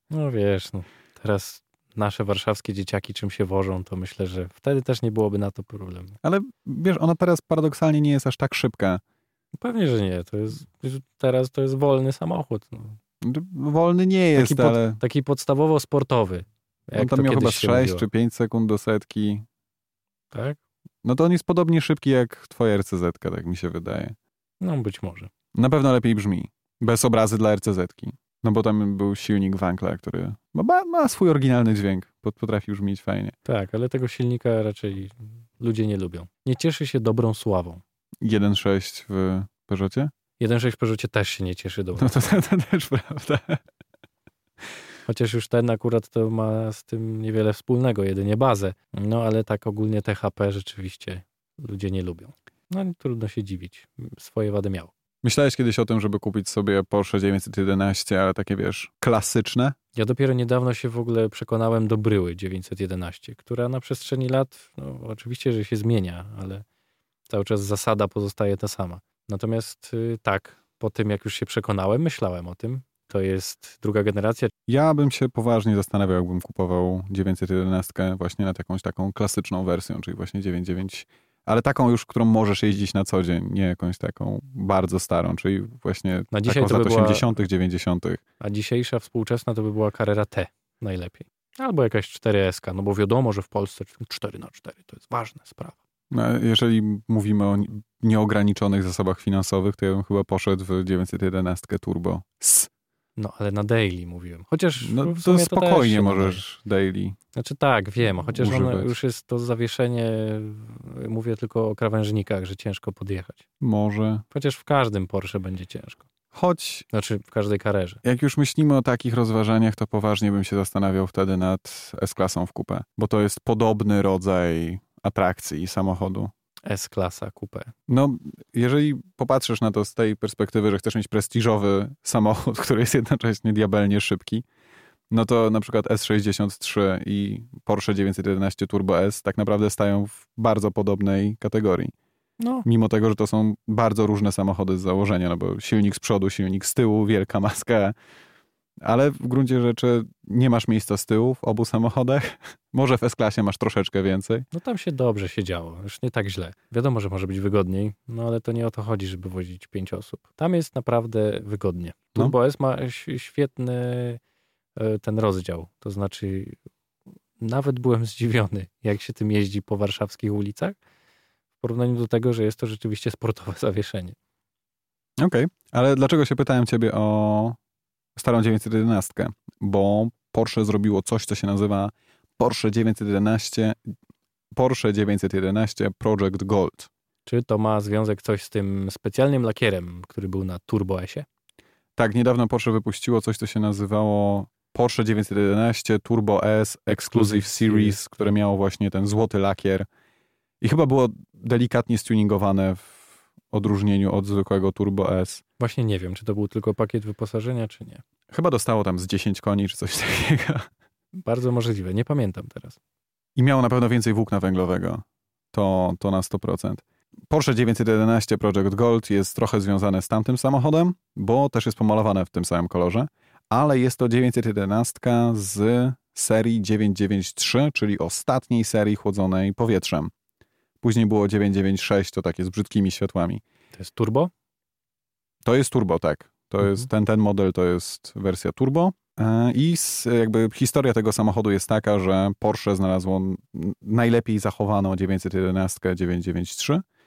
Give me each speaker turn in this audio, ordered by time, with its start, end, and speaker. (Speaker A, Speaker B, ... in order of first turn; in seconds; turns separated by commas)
Speaker A: 0.1-6.2, Speaker B: 6.2-9.0, Speaker A: 9.6-13.0, Speaker B: 13.2-15.0, Speaker A: 14.3-18.1, Speaker B: 16.9-19.4, Speaker A: 20.3-20.6, Speaker B: 21.0-24.1, Speaker A: 24.6-25.3, Speaker B: 25.5-33.4, Speaker A: 33.4-37.8, Speaker B: 38.2-40.1, Speaker A: 40.4-42.1, Speaker B: 42.0-43.6, Speaker A: 45.0-54.9, Speaker B: 55.2-59.8, Speaker A: 59.9-66.6, Speaker A: 67.3-74.5, Speaker B: 74.7-88.2, Speaker A: 86.3-87.2, Speaker A: 88.4-95.8, Speaker B: 96.1-102.7, Speaker A: 103.2-106.4, Speaker B: 104.8-107.2, Speaker A: 107.3-113.4, Speaker B: 108.3-108.9, Speaker B: 113.6-114.2, Speaker A: 114.3-116.0, Speaker B: 116.3-116.8, Speaker A: 116.9-118.0, Speaker B: 118.0-126.3, Speaker A: 126.6-127.7, Speaker B: 127.9-134.4, Speaker B: 135.1-141.9, Speaker A: 142.4-142.7, Speaker B: 142.6-147.9, Speaker B: 148.8-154.5, Speaker A: 154.5-164.2, Speaker A: 164.8-166.6, Speaker A: 167.4-170.8, Speaker A: 171.6-174.2, Speaker B: 175.2-177.6, Speaker B: 178.2-183.8, Speaker B: 184.5-186.9, Speaker A: 187.2-191.2, Speaker B: 192.0-199.9, Speaker A: 196.9-198.3, Speaker B: 200.6-205.4, Speaker A: 205.6-208.0, Speaker B: 208.3-210.7, Speaker A: 211.1-212.8, Speaker B: 213.3-230.1, Speaker B: 230.8-233.4, Speaker A: 233.7-234.3, Speaker B: 235.4-246.8